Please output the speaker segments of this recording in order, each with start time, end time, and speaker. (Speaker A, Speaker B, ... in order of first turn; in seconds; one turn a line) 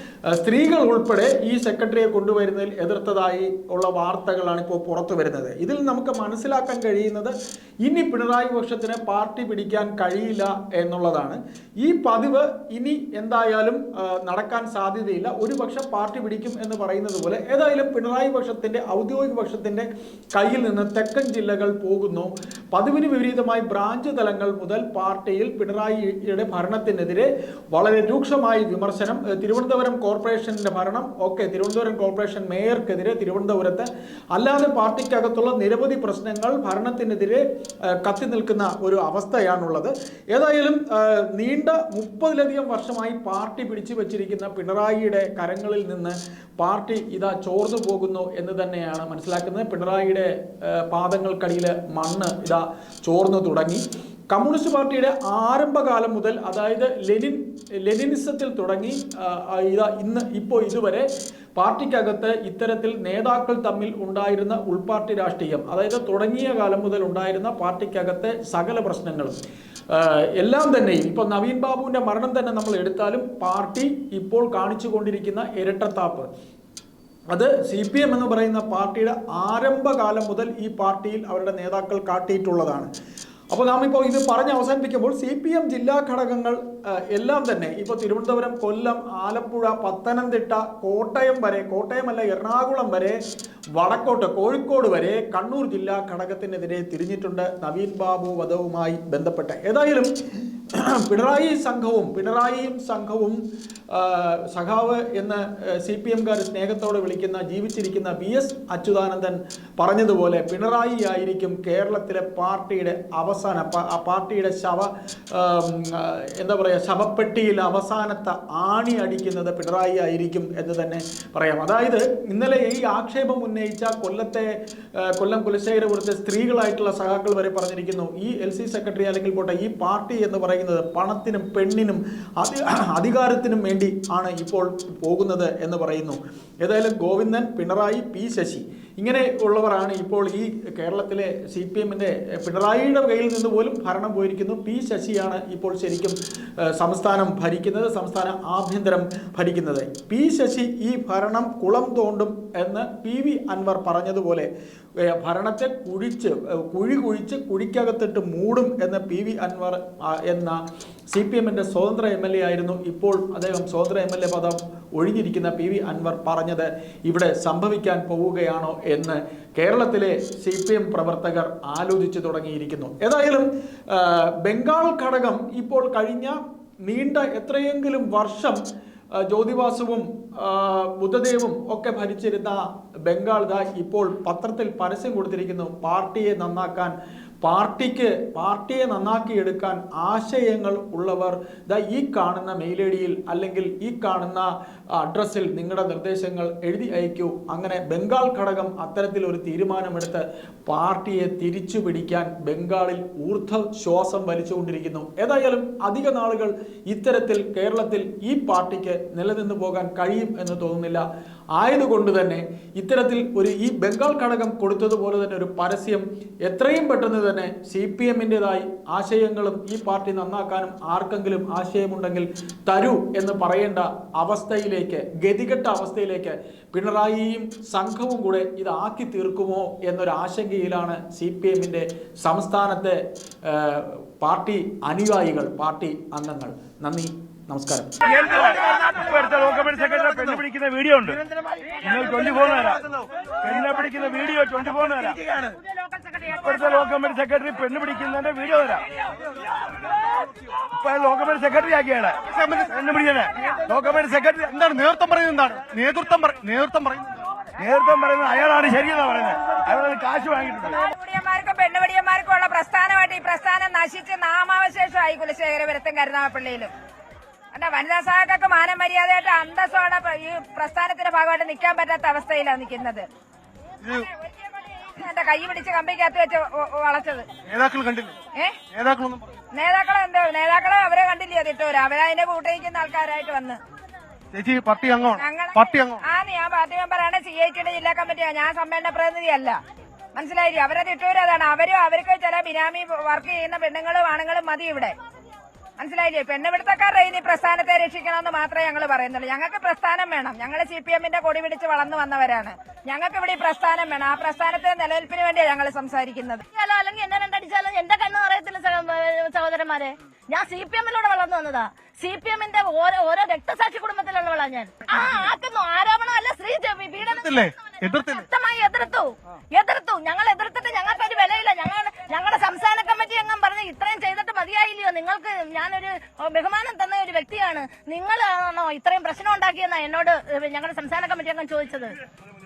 Speaker A: 0.3-37.4
Speaker A: 38.0-69.3
Speaker A: 69.9-76.3
Speaker A: 77.3-82.9
Speaker A: 83.5-93.2
Speaker A: 93.8-100.1
Speaker A: 100.7-154.5
Speaker A: 155.0-178.6
Speaker A: 179.2-237.9
Speaker B: 238.1-241.2
Speaker B: 241.8-245.2
Speaker B: 246.3-248.9
Speaker B: 250.6-254.6
Speaker C: 252.3-252.7
Speaker C: 254.5-257.3
Speaker B: 257.6-260.8
Speaker D: 260.6-266.7
Speaker D: 267.5-273.1
Speaker D: 273.8-277.3
Speaker C: 277.4-278.2
Speaker D: 278.4-278.6
Speaker C: 278.7-279.3
Speaker D: 279.5-283.6
Speaker C: 284.3-286.0
Speaker D: 285.2-289.6
Speaker D: 290.1-294.9
Speaker D: 295.8-306.4
Speaker E: 306.5-332.0
Speaker C: 317.1-318.2